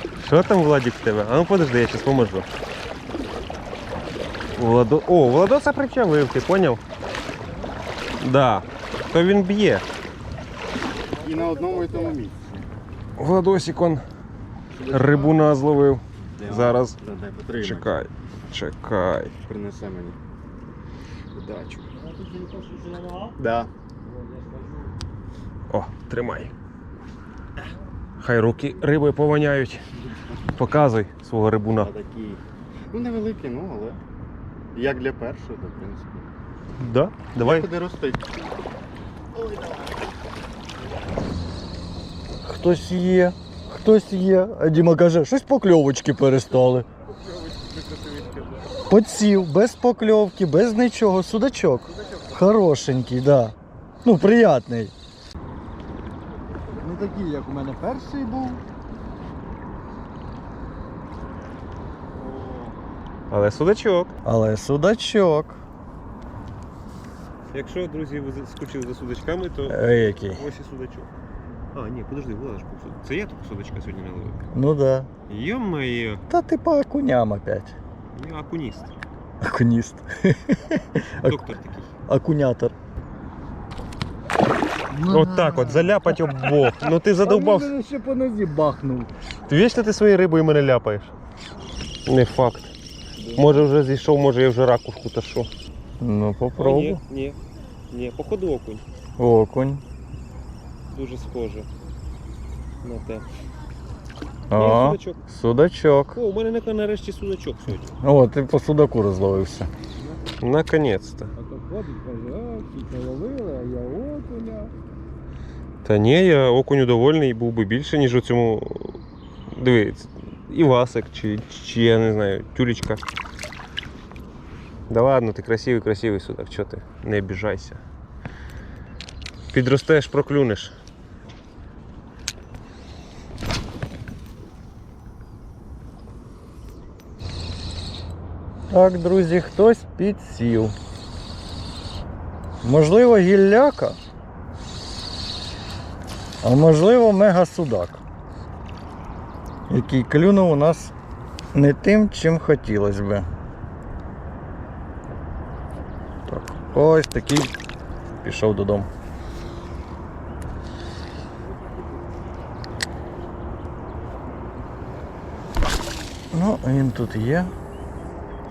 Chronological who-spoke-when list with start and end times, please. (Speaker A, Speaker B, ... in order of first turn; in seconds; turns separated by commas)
Speaker A: 0.2-2.5, Speaker A: 4.5-6.8, Speaker A: 8.2-9.8, Speaker B: 11.2-12.1, Speaker C: 11.2-12.7, Speaker A: 13.2-14.1, Speaker C: 14.7-15.3, Speaker A: 14.9-17.0, Speaker C: 16.4-18.0, Speaker A: 17.6-19.4, Speaker C: 19.5-20.2, Speaker A: 21.5-21.7, Speaker B: 21.9-23.4, Speaker C: 23.4-23.7, Speaker B: 24.0-24.9, Speaker A: 25.7-26.5, Speaker A: 28.2-29.8, Speaker A: 30.5-31.9, Speaker C: 31.8-34.0, Speaker C: 34.7-36.3, Speaker A: 36.8-37.7, Speaker C: 37.4-38.3, Speaker C: 39.3-40.0, Speaker B: 42.4-46.9, Speaker A: 47.1-48.6, Speaker B: 48.9-54.9, Speaker B: 56.8-58.6, Speaker A: 62.2-62.7, Speaker A: 63.3-64.1, Speaker B: 64.2-65.6, Speaker A: 67.5-71.1, Speaker B: 69.7-70.4, Speaker A: 71.7-74.4, Speaker B: 74.5-75.1, Speaker A: 75.3-76.2, Speaker B: 76.3-77.8, Speaker A: 78.1-78.9, Speaker B: 79.4-81.4, Speaker A: 81.2-81.9, Speaker B: 82.1-82.7, Speaker B: 84.9-89.1, Speaker A: 85.1-87.7, Speaker A: 89.5-91.1, Speaker A: 92.1-92.7, Speaker B: 93.2-93.7, Speaker A: 93.4-95.5, Speaker B: 96.0-97.0, Speaker A: 96.6-97.4, Speaker A: 97.9-98.8, Speaker B: 99.2-99.8, Speaker A: 100.9-101.7, Speaker A: 102.8-103.3, Speaker B: 104.5-106.2, Speaker A: 104.5-105.2, Speaker A: 106.1-107.9, Speaker B: 108.0-109.7, Speaker A: 110.3-111.3, Speaker B: 111.4-114.7, Speaker A: 115.8-123.0, Speaker A: 124.9-127.8, Speaker A: 129.5-130.8, Speaker B: 138.7-140.8, Speaker B: 142.6-144.0, Speaker B: 146.4-148.0, Speaker B: 149.7-150.9, Speaker B: 151.5-153.3, Speaker B: 156.3-157.5, Speaker B: 158.2-158.9, Speaker B: 166.3-167.5